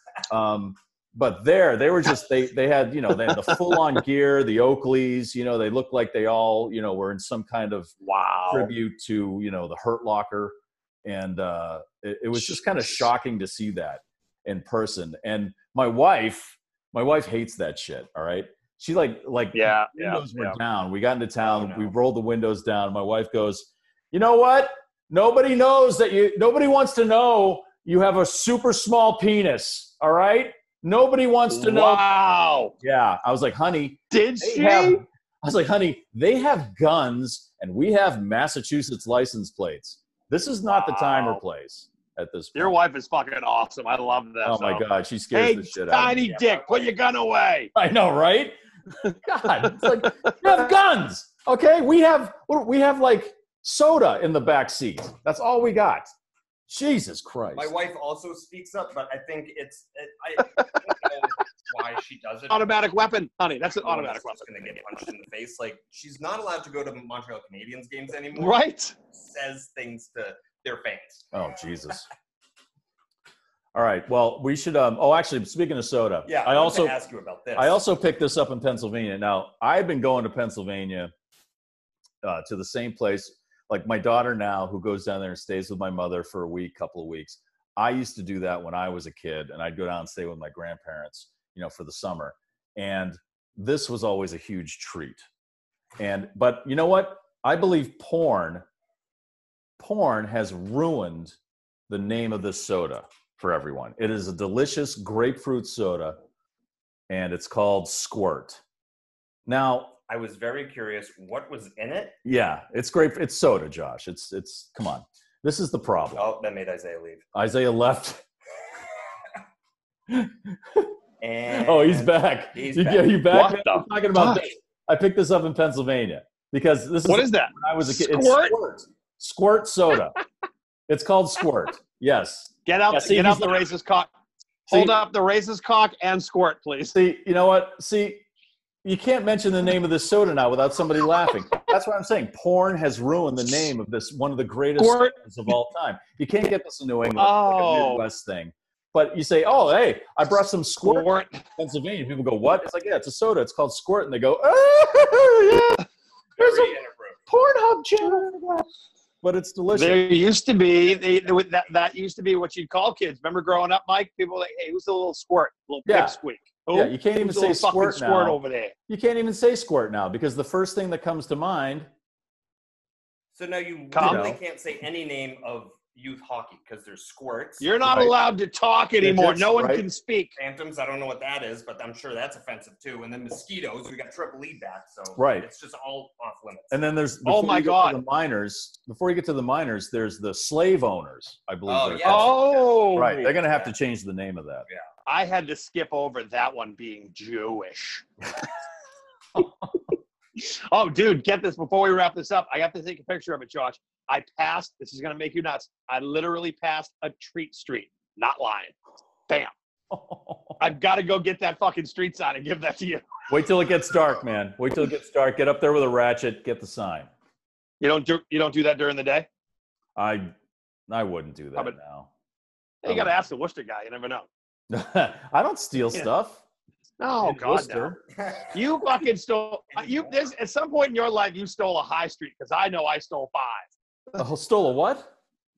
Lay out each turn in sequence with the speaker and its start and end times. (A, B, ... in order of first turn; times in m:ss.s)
0:00.3-0:07.9 A
0:03.3-0:03.6 B
0:08.0-0:08.7 B
0:08.5-0:32.0 A
0:12.4-0:13.0 B
0:19.5-0:20.6 B
0:21.4-0:21.9 C
0:31.5-0:32.7 B
0:32.8-0:42.8 A
0:34.1-0:35.0 B
0:40.7-0:41.4 B
0:42.5-0:47.7 B
0:44.4-0:46.3 A
0:46.3-0:46.9 C
0:47.7-0:48.6 A
0:49.1-0:56.1 A
0:49.7-0:50.3 B
0:56.7-0:57.7 A
0:57.5-1:02.8 C
1:02.5-1:04.9 B
1:03.8-1:11.3 C
1:08.4-1:08.9 B
1:11.3-1:12.1 A
1:13.7-1:16.9 A
1:16.2-1:17.8 C
1:17.5-1:21.1 A
1:22.2-1:35.2 A
1:36.0-1:38.6 A
1:39.8-1:41.4 A
1:41.9-1:46.2 A
1:47.1-1:48.6 A
1:49.4-1:49.9 A
1:50.1-1:52.2 C
1:52.2-1:56.3 A
1:56.1-1:57.2 C
1:57.3-1:58.2 A
2:00.1-2:00.9 A
2:01.2-2:03.2 C
2:01.5-2:10.2 A
2:03.3-2:04.5 B
2:07.0-2:08.6 B
2:10.9-2:13.7 A
2:12.6-2:14.1 B
2:14.7-2:15.0 A
2:14.7-2:17.0 B
2:16.9-2:18.2 A
2:18.8-2:35.8 A
2:24.8-2:25.2 B
2:27.2-2:28.0 B
2:30.8-2:31.4 B
2:36.4-2:37.2 C
2:37.3-2:38.6 A
2:37.7-2:38.2 B
2:39.2-2:40.1 A
2:39.7-2:48.7 B
2:45.8-2:46.2 A
2:46.7-2:51.9 A
2:53.3-2:57.7 C
2:53.9-2:54.3 B
2:54.0-2:54.4 A
2:57.6-3:00.3 B
2:57.8-2:58.2 A
2:59.0-2:59.8 A
3:00.4-3:06.8 C
3:05.2-3:05.5 A
3:06.7-3:14.6 A
3:07.2-3:08.0 B
3:11.7-3:13.7 C
3:12.0-3:13.3 B
3:15.0-3:18.0 B
3:20.4-3:28.7 B
3:29.9-3:30.7 A
3:30.6-3:33.1 B
3:33.3-3:37.1 A
3:37.8-3:39.3 B
3:40.0-3:40.3 A
3:40.9-3:42.1 A
3:42.8-3:44.3 B
3:42.8-3:43.1 A
3:44.7-3:46.4 A
3:47.0-3:48.0 B
3:47.2-3:48.0 A
3:48.1-3:48.5 C
3:48.5-3:53.6 B
3:49.7-3:50.2 C
3:54.2-3:55.1 A